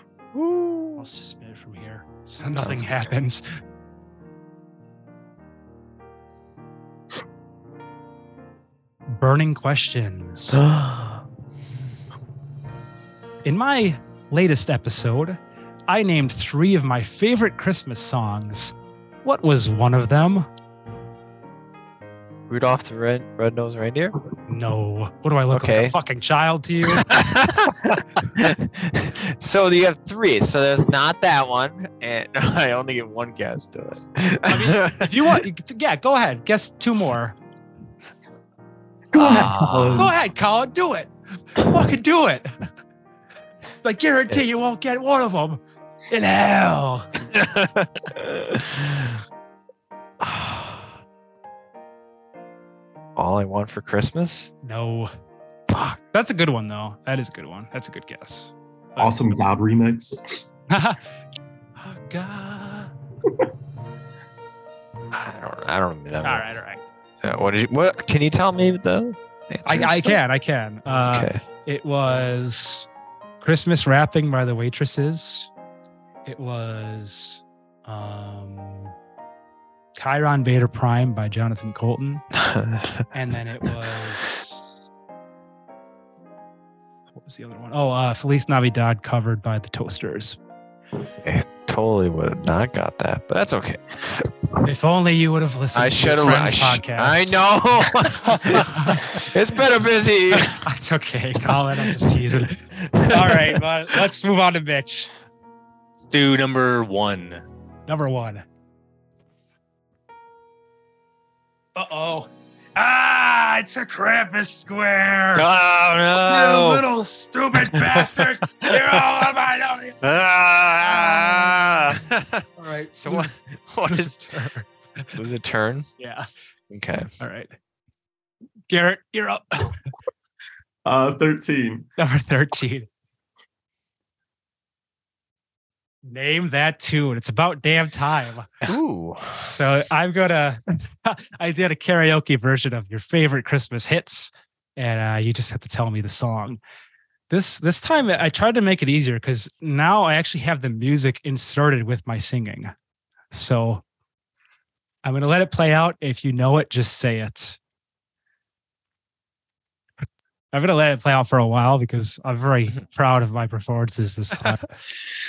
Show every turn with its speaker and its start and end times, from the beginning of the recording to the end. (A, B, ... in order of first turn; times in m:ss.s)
0:00.3-0:01.1 A
0:01.0-0:03.4 B
0:02.6-0:03.1 A
0:09.1-0:10.6 B
0:10.5-0:11.2 A
0:13.4-0:20.5 B
0:22.5-0:24.2 A
0:24.5-0:27.1 B
0:25.5-0:26.0 A
0:26.9-0:35.4 A
0:34.5-0:37.4 B
0:39.1-0:40.1 A
0:39.1-0:40.2 C
0:39.2-0:42.5 B
0:43.8-0:47.1 B
0:47.3-0:49.2 A
0:50.2-0:51.0 A
0:53.2-0:54.5 A
0:54.6-0:55.1 B
0:55.7-0:56.0 A
0:56.1-0:59.4 B
0:59.0-1:00.4 C
1:00.7-1:01.0 B
1:01.8-1:02.9 B
1:05.1-1:06.5 A
1:06.2-1:06.8 B
1:07.2-1:10.2 A
1:09.7-1:12.9 B
1:10.9-1:11.4 A
1:13.4-1:15.5 B
1:16.3-1:18.9 B
1:20.0-1:22.2 B
1:22.3-1:23.0 A
1:23.1-1:24.9 B
1:27.2-1:30.4 B
1:31.2-1:34.3 A
1:34.6-1:37.4 B
1:35.7-1:40.6 A
1:38.2-1:39.3 B
1:40.3-1:45.1 B
1:41.6-1:43.6 A
1:46.0-1:47.4 D
1:47.9-1:48.4 B
1:51.8-1:55.5 B
1:55.4-1:56.9 D
1:56.2-2:01.8 B
2:00.0-2:02.0 D
2:02.0-2:04.2 A
2:02.6-2:03.3 B
2:03.8-2:05.1 B
2:05.2-2:05.9 A
2:06.0-2:06.3 B
2:06.7-2:07.1 A
2:07.2-2:07.5 B
2:08.7-2:09.8 B
2:10.8-2:11.9 C
2:12.0-2:12.9 B
2:16.0-2:18.6 B
2:18.6-2:19.6 A
2:19.6-2:26.6 B
2:27.3-2:32.7 B
2:33.3-2:33.8 B
2:35.0-2:37.6 B
2:40.5-2:44.7 B